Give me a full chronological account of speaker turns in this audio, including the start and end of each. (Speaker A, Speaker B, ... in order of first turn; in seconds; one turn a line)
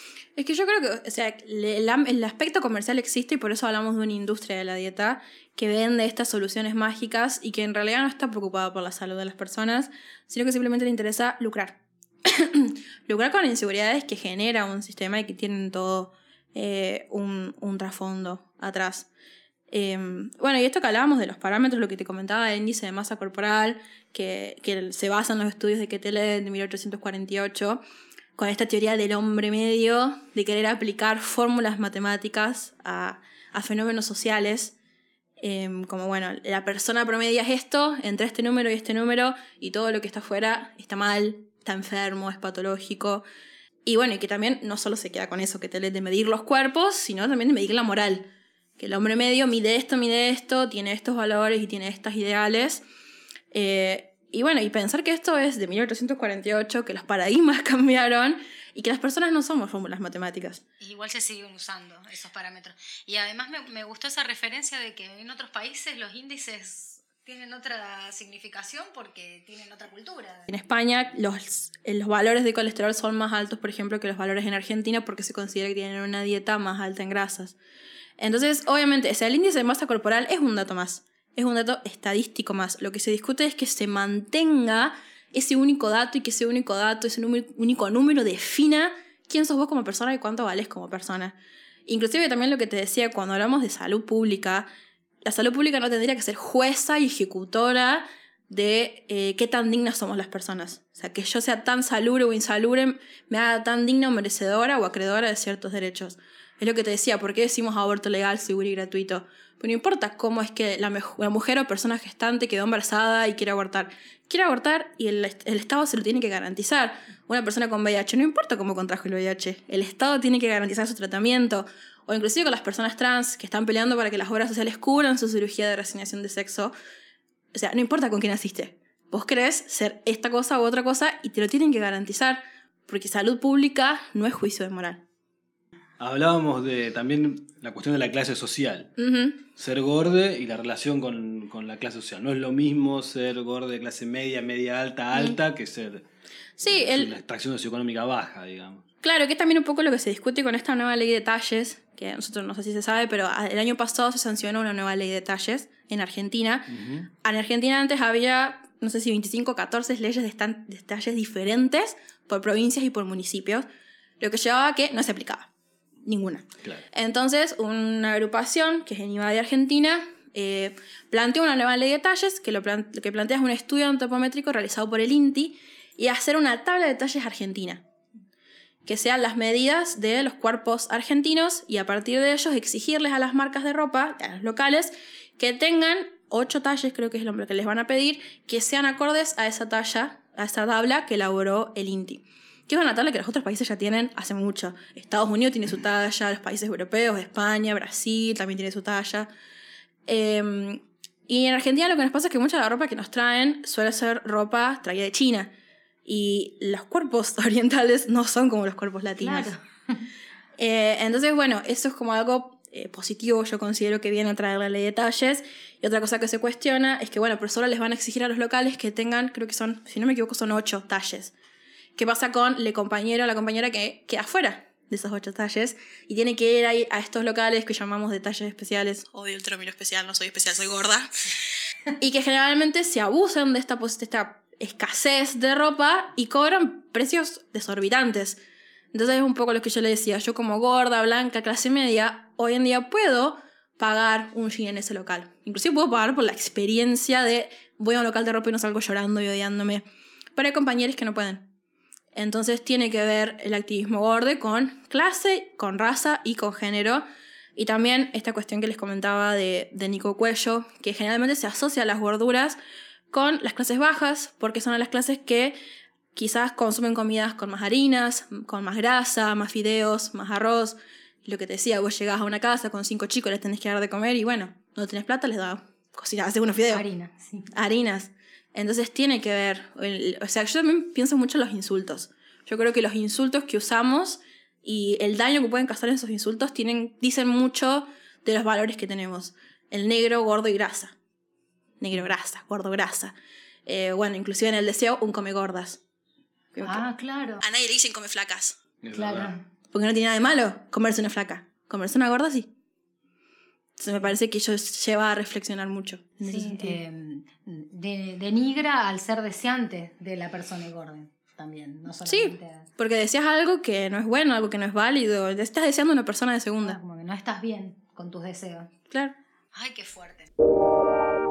Speaker A: 0.3-19.1
Speaker A: 19.7-27.8
Speaker A: 28.4-34.7
Speaker A: 35.4-43.2
Speaker A: 43.9-52.8
Speaker A: 53.5-60.6
Speaker B: 60.8-70.5
Speaker A: 70.5-77.5
Speaker A: 78.2-91.3
Speaker A: 91.9-94.7
Speaker A: 95.2-126.7
Speaker A: 127.5-135.0
Speaker C: 136.0-138.9
Speaker A: 139.0-139.4
Speaker C: 139.6-146.0
Speaker A: 146.6-147.1
Speaker C: 146.7-148.8
Speaker A: 149.0-163.6
Speaker C: 156.7-157.1
Speaker A: 164.2-165.5
Speaker A: 166.0-177.8
Speaker A: 178.8-199.3
Speaker A: 200.1-205.5
Speaker A: 206.1-209.5
Speaker B: 209.2-210.1
Speaker A: 210.6-221.3
Speaker A: 222.0-231.2
Speaker A: 232.0-238.4
Speaker A: 238.9-249.8
Speaker A: 250.3-251.4
Speaker A: 252.1-257.0
Speaker A: 257.6-262.6
Speaker A: 263.1-265.6
Speaker A: 266.1-276.8
Speaker B: 276.7-277.5
Speaker A: 277.5-290.9
Speaker A: 291.8-293.1
Speaker A: 293.6-295.8
Speaker A: 296.5-296.8
Speaker B: 296.6-297.4
Speaker A: 297.4-298.6
Speaker C: 298.8-299.3
Speaker B: 298.9-299.4
Speaker A: 299.7-302.5
Speaker A: 303.8-306.8
Speaker B: 306.2-312.7
Speaker A: 312.1-316.8
Speaker B: 316.6-318.7
Speaker B: 319.5-320.3